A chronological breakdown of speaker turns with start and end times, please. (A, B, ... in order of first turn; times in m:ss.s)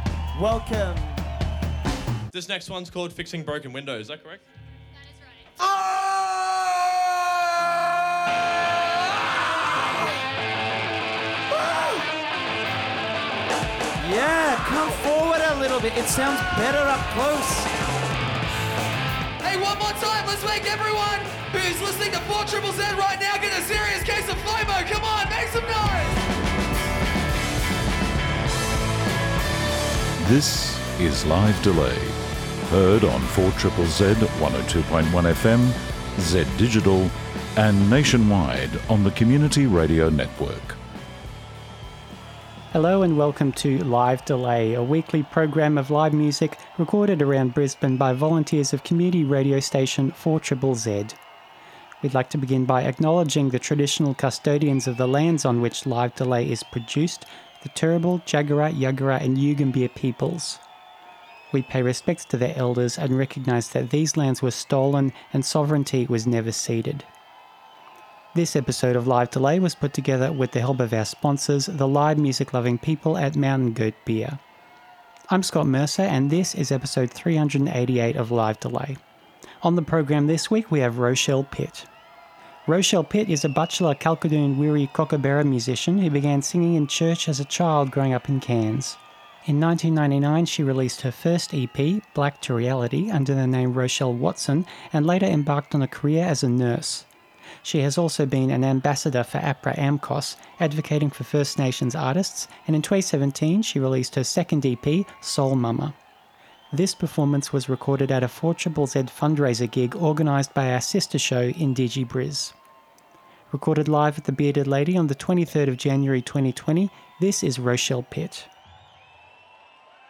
0:00.4-0:01.2 A
0:02.3-0:04.4 B
0:14.0-0:17.7 A
0:19.4-0:26.2 C
0:30.2-0:40.8 D
0:42.7-0:51.2 E
0:52.0-1:00.6 E
1:01.5-1:07.1 E
1:08.3-1:14.4 E
1:15.3-1:19.0 E
1:19.6-1:21.9 E
1:22.7-1:37.1 E
1:37.6-1:46.0 E
1:46.7-1:52.5 E
1:53.5-1:58.5 E